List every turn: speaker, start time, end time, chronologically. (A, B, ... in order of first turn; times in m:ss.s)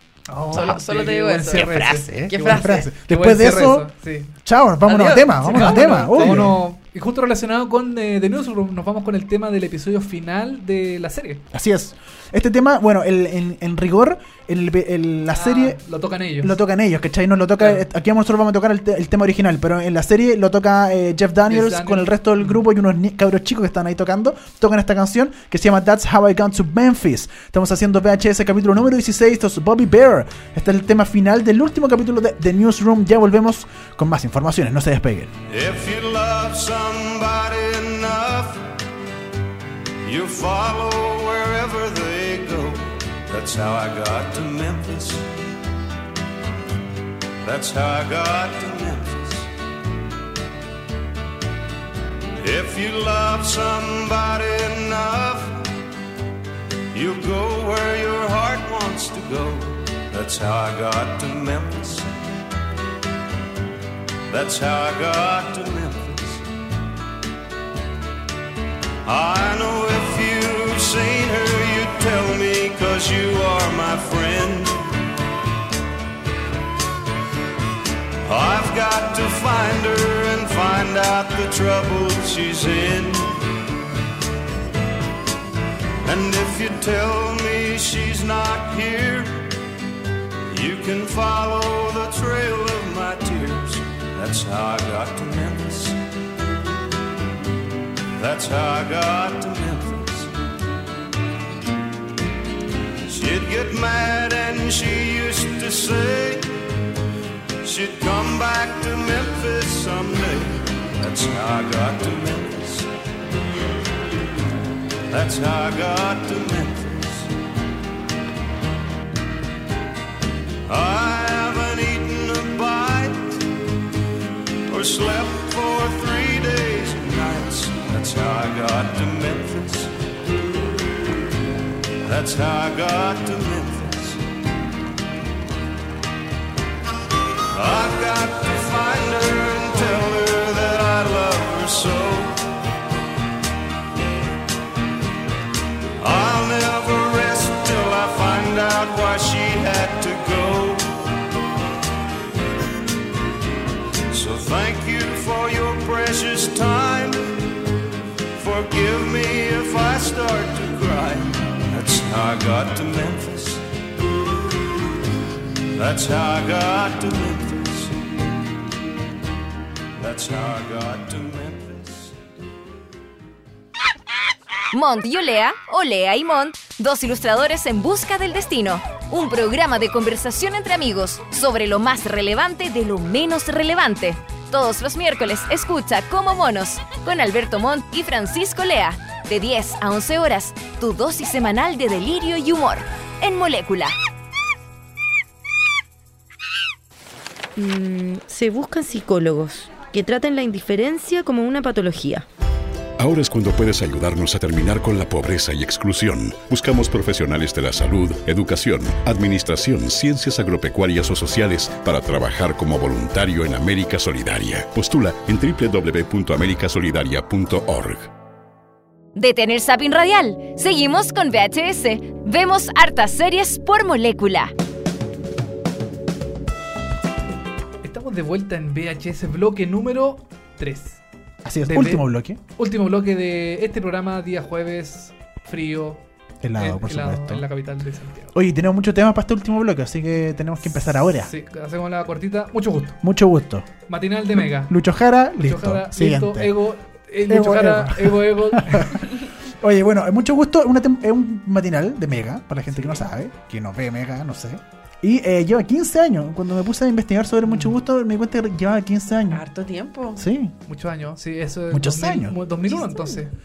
0:00.3-0:04.3 A
0:00.5-0:01.7 B
0:01.5-0:03.9 C
0:02.3-0:02.9 B
0:04.4-0:06.6 C
0:04.8-0:06.2 B
0:05.4-0:11.4 A
0:11.5-0:15.8 C
0:15.3-0:16.6 A
0:16.4-0:35.3 C
0:17.6-0:17.8 A
0:21.5-0:22.6 A
0:35.5-0:38.7 D
0:40.0-0:45.3 D
0:47.4-0:49.5 D
0:52.4-0:55.7 D
0:56.9-1:02.1 D
1:04.3-1:06.4 D
1:09.1-1:14.8 D
1:18.3-1:23.4 D
1:26.0-1:29.5 D
1:30.5-1:36.0 D
1:38.2-1:40.3 D
1:43.1-1:46.6 D
1:47.6-1:52.9 D
1:55.1-1:57.3 D
2:00.7-2:03.5 D
2:04.7-2:09.9 D
2:12.0-2:14.2 D
2:17.5-2:22.5 D
2:26.0-2:30.9 D
2:34.1-2:37.3 D
2:38.4-2:43.6 D
2:45.8-2:48.0 D
2:50.0-2:52.2 D
2:54.7-3:14.0 E
3:17.6-3:22.3 F
3:23.0-3:38.1 G
3:39.2-3:44.5 E
3:47.8-3:51.0 A
3:51.4-3:52.4 C
3:51.6-3:56.0 A
3:56.4-3:57.5 C
3:56.6-3:58.4 A
3:58.3-4:01.3 C
4:01.0-4:03.0 A
4:03.0-4:03.7 C
4:03.9-4:04.8 A
4:04.3-4:06.5 C
4:05.4-4:09.1 A
4:07.3-4:19.4 C
4:12.7-4:13.0 A
4:17.4-4:17.7 A
4:19.3-4:20.2 B
4:20.2-4:20.5 C
4:20.7-4:23.3 A
4:21.7-4:22.4 C